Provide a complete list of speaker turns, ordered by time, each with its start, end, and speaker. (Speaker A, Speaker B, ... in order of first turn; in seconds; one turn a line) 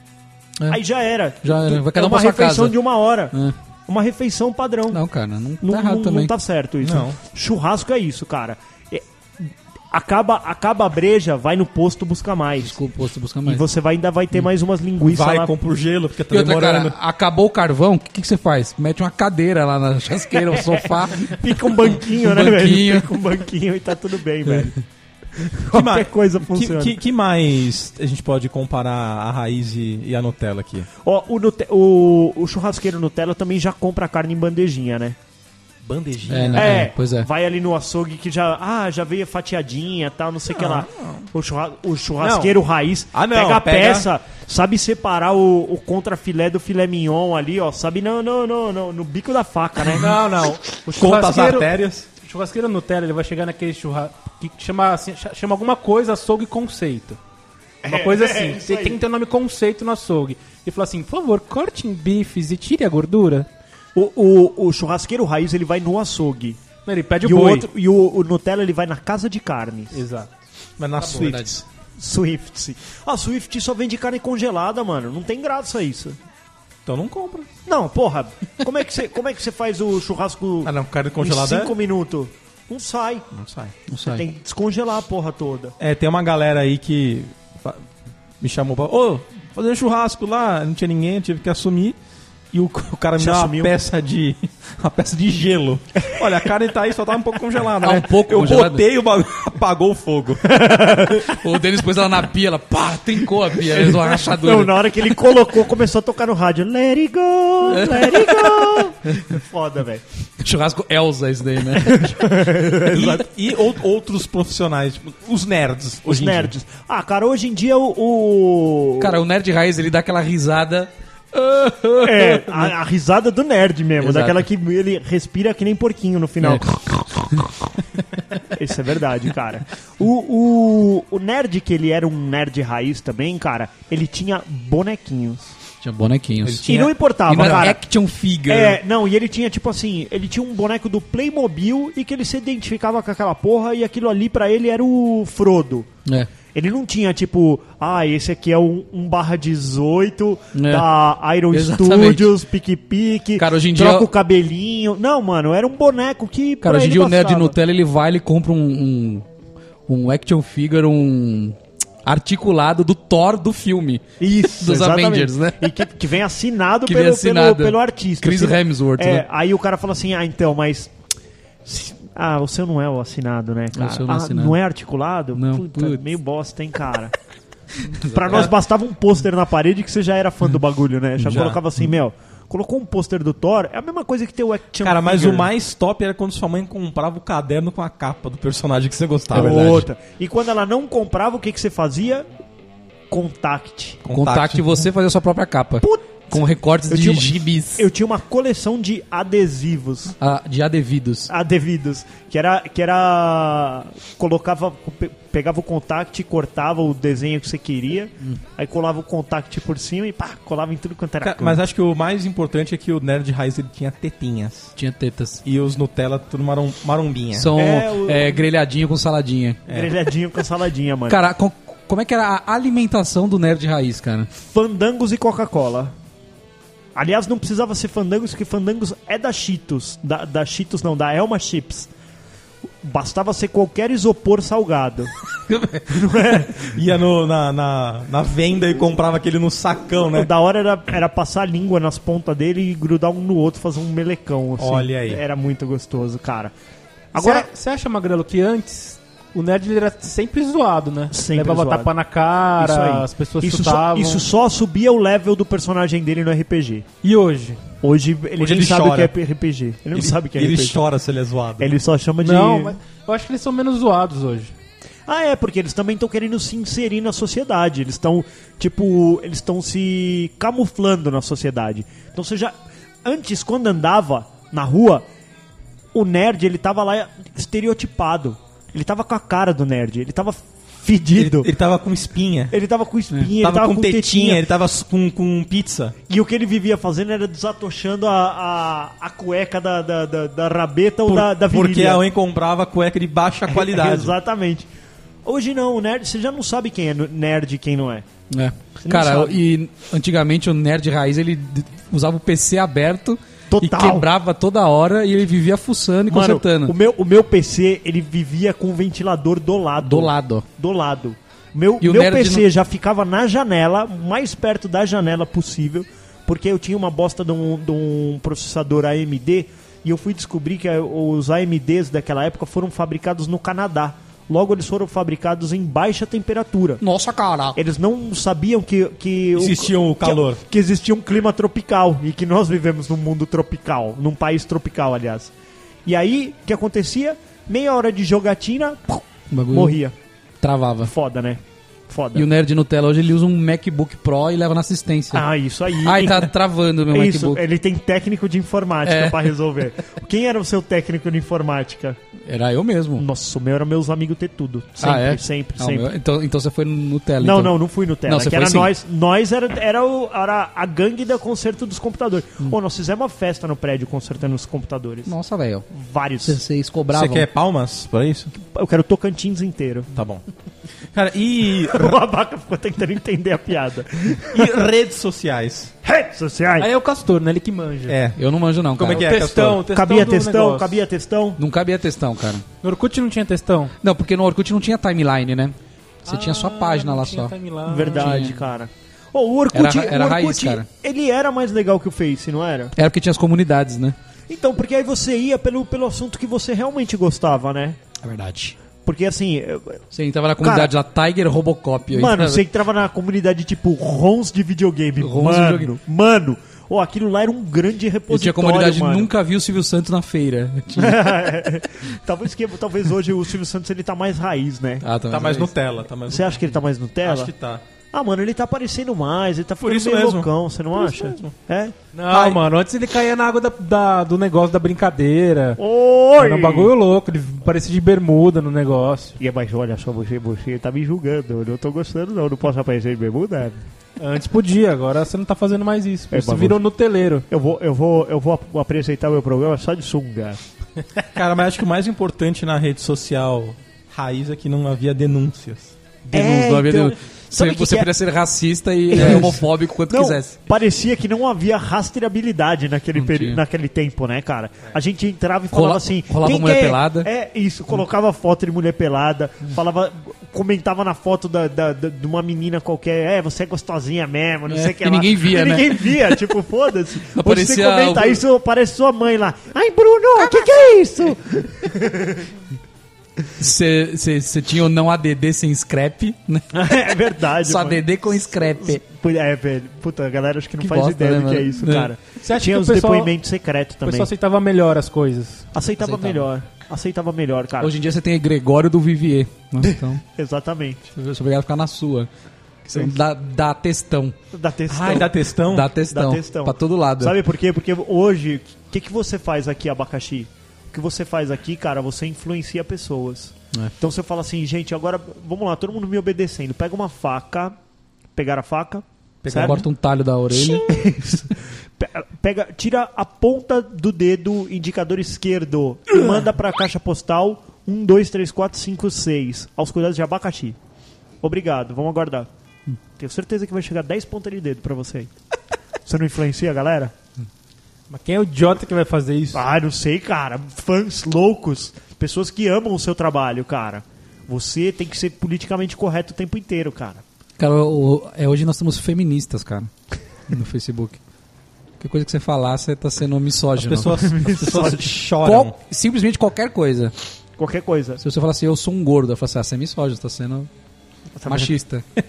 Speaker A: 0.7-3.3
Speaker B: 1.4-2.8
Speaker A: 3.9-5.0
Speaker B: 4.9-6.3
Speaker A: 5.6-12.8
Speaker C: 6.8-7.2
Speaker B: 12.6-13.7
Speaker A: 13.4-15.5
Speaker C: 15.1-17.0
Speaker B: 16.3-23.1
Speaker A: 21.1-24.8
Speaker A: 25.4-27.0
Speaker C: 25.7-30.9
Speaker A: 31.0-35.2
Speaker C: 35.8-36.9
Speaker B: 36.3-37.3
Speaker A: 36.5-50.1
Speaker C: 40.5-41.2
Speaker D: 42.2-42.6
Speaker C: 43.1-44.1
Speaker D: 49.9-57.2
Speaker C: 50.9-52.1
Speaker A: 57.8-59.0
Speaker D: 57.8-63.5
Speaker A: 64.0-66.6
Speaker D: 66.8-67.7
Speaker A: 67.2-70.0
Speaker D: 69.9-70.3
Speaker C: 70.8-71.6
Speaker B: 71.0-71.6
Speaker A: 72.0-76.2
Speaker C: 76.9-77.5
Speaker A: 77.7-83.3
Speaker C: 80.6-81.8
Speaker C: 83.3-83.8
Speaker B: 83.9-84.2
Speaker A: 84.0-85.8
Speaker C: 85.8-87.9
Speaker C: 88.4-92.0
Speaker C: 92.5-100.4
Speaker A: 93.2-93.8
Speaker B: 97.8-98.9
Speaker A: 100.4-101.4
Speaker B: 101.1-105.0
Speaker A: 103.6-110.0
Speaker B: 107.7-109.2
Speaker B: 110.4-112.1
Speaker A: 111.8-113.3
Speaker C: 112.9-116.5
Speaker A: 116.0-119.2
Speaker B: 119.0-122.7
Speaker A: 122.0-126.8
Speaker B: 124.0-124.5
Speaker B: 126.4-127.6
Speaker A: 128.5-135.5
Speaker B: 135.8-136.7
Speaker C: 136.4-137.7
Speaker A: 136.7-137.8
Speaker B: 137.3-138.8
Speaker A: 138.5-145.9
Speaker A: 146.5-157.6
Speaker B: 150.6-150.9
Speaker B: 151.5-152.3
Speaker B: 153.4-154.1
Speaker B: 156.6-159.2
Speaker B: 159.9-165.8
Speaker A: 164.2-170.9
Speaker B: 166.9-169.2
Speaker A: 171.7-177.1
Speaker B: 173.7-174.6
Speaker B: 175.3-176.0
Speaker B: 177.9-178.5
Speaker A: 178.1-185.5
Speaker B: 181.2-181.6
Speaker C: 181.3-181.6
Speaker C: 184.8-189.9
Speaker A: 189.3-192.3
Speaker B: 189.3-189.8
Speaker A: 193.1-194.0
Speaker C: 194.1-194.9
Speaker B: 194.1-197.8
Speaker A: 195.8-200.2
Speaker B: 200.2-201.3
Speaker A: 201.3-211.6
Speaker C: 211.2-214.7
Speaker B: 214.8-215.4
Speaker C: 215.4-217.5
Speaker B: 217.4-219.6
Speaker A: 217.6-218.4
Speaker A: 219.7-221.2
Speaker B: 221.1-224.3
Speaker A: 224.3-225.9
Speaker A: 227.0-231.9
Speaker A: 232.8-235.1
Speaker C: 235.5-235.9
Speaker A: 235.9-236.7
Speaker C: 236.4-240.3
Speaker A: 240.1-246.5
Speaker C: 244.6-245.2
Speaker A: 247.1-247.5
Speaker D: 247.2-254.2
Speaker A: 251.1-251.9
Speaker A: 252.6-256.9
Speaker D: 257.0-257.6
Speaker A: 257.8-260.8
Speaker C: 258.4-259.2
Speaker C: 259.9-261.8
Speaker A: 261.6-262.8
Speaker D: 262.2-264.5
Speaker A: 265.1-275.1
Speaker A: 275.9-281.5
Speaker C: 281.2-282.5
Speaker A: 282.5-284.4
Speaker C: 283.4-286.0
Speaker A: 286.1-292.1
Speaker C: 291.1-294.2
Speaker A: 293.5-294.7
Speaker A: 295.2-298.1
Speaker B: 298.3-306.7
Speaker A: 298.8-299.4
Speaker A: 303.5-304.1
Speaker A: 306.1-326.8
Speaker B: 309.8-310.4
Speaker B: 311.8-312.4
Speaker B: 326.8-327.6
Speaker A: 327.6-335.3
Speaker C: 329.4-330.4
Speaker A: 335.9-339.9
Speaker B: 339.3-339.8
Speaker B: 340.4-340.9
Speaker A: 340.8-342.2
Speaker B: 342.1-345.2
Speaker A: 345.1-346.3
Speaker B: 345.8-347.4
Speaker A: 346.9-352.0
Speaker B: 348.9-349.3
Speaker B: 352.3-353.1
Speaker A: 353.0-355.9
Speaker B: 354.8-358.7
Speaker A: 357.2-365.1
Speaker B: 365.1-365.7
Speaker A: 365.7-366.4
Speaker B: 366.3-367.3
Speaker C: 366.9-368.3
Speaker A: 368.4-369.9
Speaker C: 369.9-370.2
Speaker C: 370.9-372.0
Speaker A: 371.7-374.5
Speaker C: 374.2-375.7
Speaker A: 375.8-376.7
Speaker D: 376.6-378.0
Speaker C: 377.9-378.2
Speaker B: 378.2-379.1
Speaker C: 378.8-379.6
Speaker D: 378.8-380.8
Speaker A: 379.7-381.4
Speaker B: 381.4-382.4
Speaker D: 382.6-383.7
Speaker B: 383.8-387.4
Speaker D: 386.1-388.2
Speaker A: 387.7-392.7
Speaker B: 388.0-388.4
Speaker B: 389.5-390.7
Speaker B: 392.8-394.0
Speaker A: 394.3-397.8
Speaker B: 398.0-398.6
Speaker A: 398.8-399.8
Speaker B: 399.9-402.4
Speaker A: 400.4-400.7
Speaker A: 401.9-409.1
Speaker B: 405.0-405.7
Speaker B: 408.1-411.2
Speaker A: 410.8-414.8
Speaker B: 414.8-415.5
Speaker C: 415.1-416.5
Speaker A: 416.1-417.3
Speaker C: 417.0-417.6
Speaker A: 417.9-421.8
Speaker C: 419.6-421.3
Speaker D: 421.9-425.6
Speaker C: 422.1-422.4
Speaker A: 425.6-426.7
Speaker D: 426.2-429.2
Speaker A: 429.2-433.6
Speaker D: 434.0-437.3
Speaker A: 436.1-436.6
Speaker A: 437.3-440.4
Speaker C: 441.1-445.8
Speaker A: 446.1-447.9
Speaker B: 446.1-450.4
Speaker A: 448.9-472.3
Speaker B: 452.9-453.4
Speaker B: 455.5-457.1
Speaker B: 464.5-466.2
Speaker B: 467.1-468.2
Speaker B: 473.4-476.6
Speaker A: 476.5-484.1
Speaker B: 477.4-478.8
Speaker B: 480.6-481.9
Speaker D: 482.2-483.1
Speaker D: 483.9-485.5
Speaker A: 485.5-487.7
Speaker B: 485.8-486.3
Speaker B: 487.6-490.0
Speaker A: 489.6-490.8
Speaker B: 490.9-492.1
Speaker B: 492.6-494.2
Speaker A: 494.3-495.2
Speaker C: 494.7-495.7
Speaker B: 494.9-497.2
Speaker A: 495.8-507.6
Speaker A: 508.2-509.6
Speaker C: 509.2-509.7
Speaker B: 509.3-510.7
Speaker A: 510.3-520.6
Speaker A: 521.2-522.3
Speaker A: 523.0-525.1
Speaker A: 525.9-526.9
Speaker D: 527.9-529.4
Speaker A: 529.3-537.0
Speaker B: 537.4-539.7
Speaker B: 540.3-541.0
Speaker B: 541.8-544.0
Speaker C: 543.6-545.5
Speaker A: 544.0-544.9
Speaker B: 545.2-546.9
Speaker A: 547.4-548.0
Speaker B: 548.0-550.5
Speaker A: 551.2-551.5
Speaker B: 551.3-551.8